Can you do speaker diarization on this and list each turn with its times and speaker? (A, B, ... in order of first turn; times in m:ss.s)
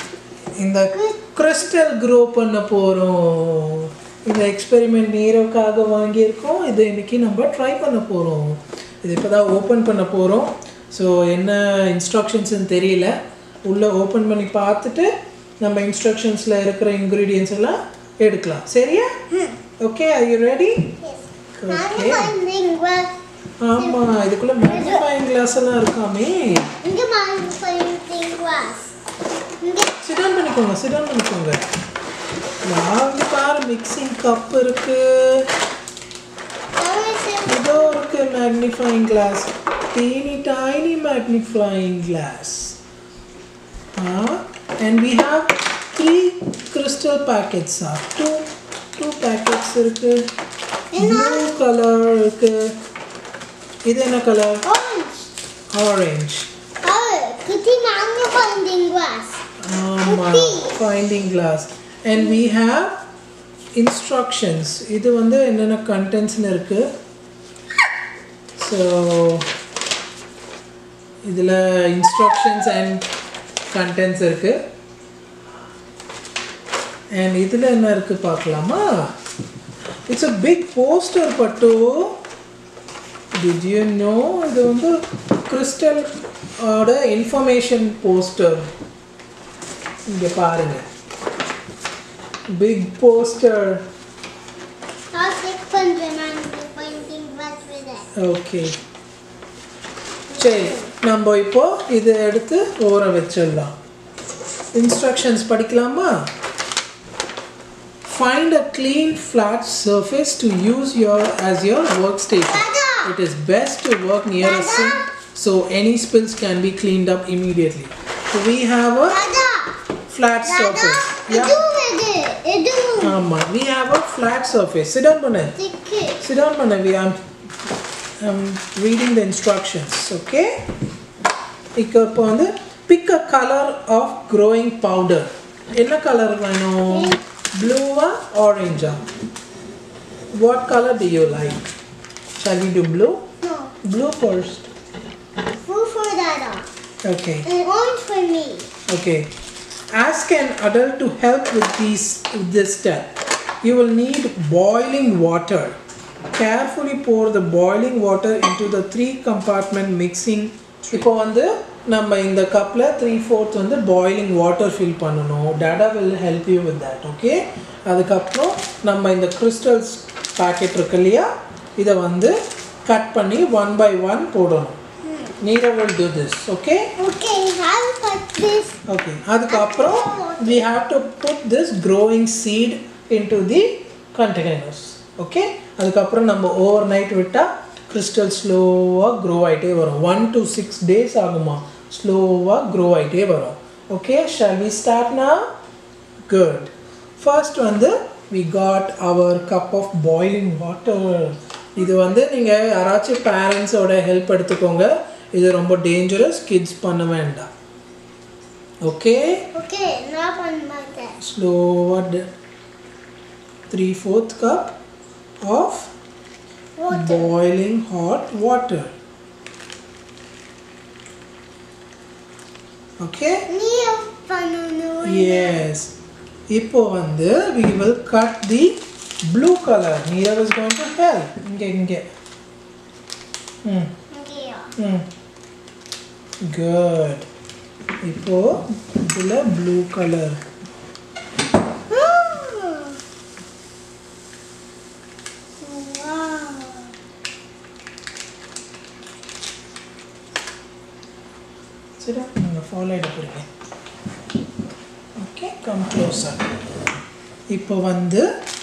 0:00.6-0:19.1 A
0:19.3-0:19.6 B
0:19.8-0:20.9 A
0:21.0-0:23.2 B
0:21.6-0:22.3 A
0:23.6-0:26.7 A
0:24.6-0:25.0 B
0:26.8-0:28.9 B
0:29.6-0:30.0 B
0:30.0-0:31.6 A
0:32.6-0:35.4 A
0:36.8-0:38.0 B
0:37.4-0:42.8 A
0:44.0-0:50.2 A
0:50.9-0:51.6 B
0:51.0-0:52.8 A
0:53.8-0:54.6 A
0:54.6-0:55.2 B
0:55.7-0:56.5 A
0:56.8-0:59.4 B
0:59.6-1:03.0 A
1:00.0-1:00.8 B
1:03.7-1:06.9 A
1:08.6-1:09.5 A
1:11.2-1:13.0 A
1:13.7-1:14.6 A
1:17.1-1:19.1 A
1:20.1-1:22.2 A
1:23.3-1:26.1 A
1:26.6-1:28.7 A
1:30.1-1:30.8 A
1:32.5-1:33.9 A
1:35.1-1:38.1 B
1:38.2-1:38.8 A
1:40.3-1:40.9 B
1:40.3-1:43.7 A
1:44.7-1:46.3 A
1:48.0-1:59.2 A
1:52.4-1:53.1 B
1:54.4-1:55.1 B
1:59.1-1:59.8 B
2:00.1-2:01.6 A
2:00.4-2:03.2 B
2:03.0-2:05.6 A
2:05.6-2:06.3 B
2:06.2-2:07.2 A
2:08.2-2:10.5 A
2:11.7-2:19.0 A
2:16.9-2:17.2 B
2:20.3-2:21.6 A
2:22.4-2:23.2 A
2:23.4-2:23.7 B
2:23.8-2:24.7 A
2:25.7-2:26.7 B
2:27.0-2:27.5 A
2:27.4-2:28.7 B
2:28.9-2:29.3 A
2:29.9-2:35.8 A
2:36.3-2:54.8 A
2:55.0-2:55.4 B
2:55.4-2:56.9 A
2:57.0-2:58.8 B
2:58.9-3:15.5 A
2:59.5-3:00.7 B
3:16.3-3:27.5 A
3:28.8-3:29.5 A
3:29.5-3:31.2 B
3:31.2-3:32.3 A
3:33.7-3:34.8 A
3:35.4-3:35.9 A
3:36.8-3:37.3 B
3:36.9-3:38.9 A
3:43.0-3:43.5 A
3:43.5-3:45.6 B
3:45.0-3:45.9 A
3:46.5-3:52.0 A
3:53.6-3:53.9 A
3:54.1-3:54.7 B
3:54.8-3:55.1 A
3:56.4-3:57.3 A
3:58.0-4:00.4 A
4:01.9-4:03.0 B
4:05.6-4:06.9 B
4:12.0-4:13.5 A
4:15.2-4:16.5 A
4:17.5-4:18.3 A